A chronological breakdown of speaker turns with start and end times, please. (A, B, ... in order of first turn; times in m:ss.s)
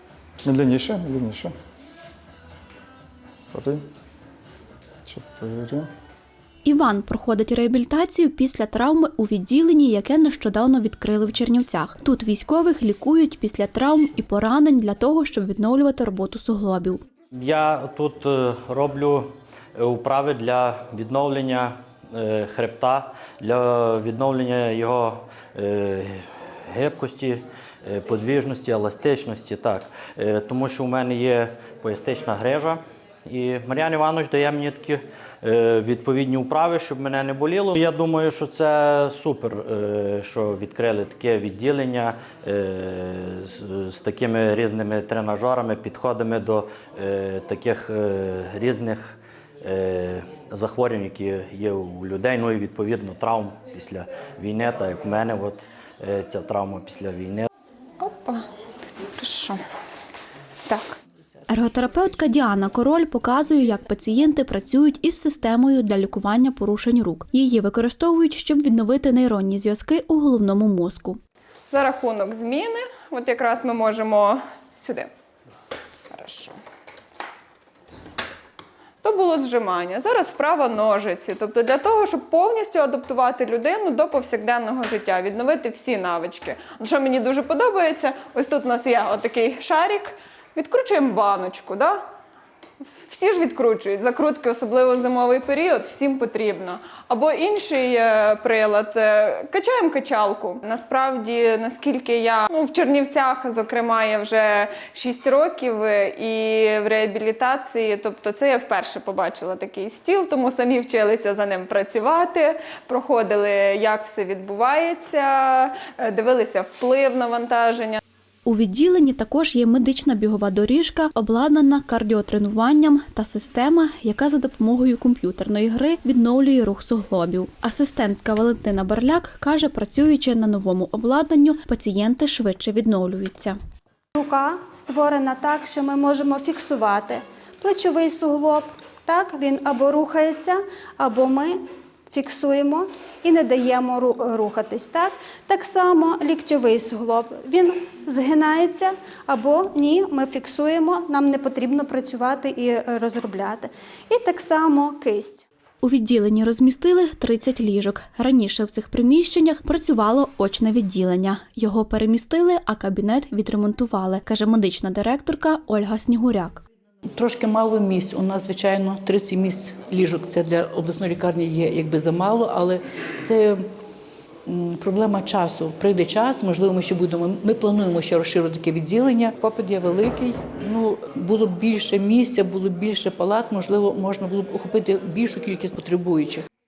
0:00.4-0:01.5 A
0:03.5-0:03.8 A
0:05.0-0:05.9 A
0:06.6-0:17.0 B
0:17.3-0:57.5 C
0:58.0-0:58.4 D
0:59.2-0:59.6 D
1:00.7-1:01.0 D
1:01.5-1:11.2 B
1:11.7-1:15.1 D
1:16.1-1:16.6 D
1:19.0-1:32.0 D
1:33.1-1:58.0 D
1:58.4-2:13.6 B
2:14.1-2:21.6 E
2:22.1-2:35.4 E
2:35.8-2:46.6 B
2:47.1-2:53.7 F
2:54.4-3:06.4 F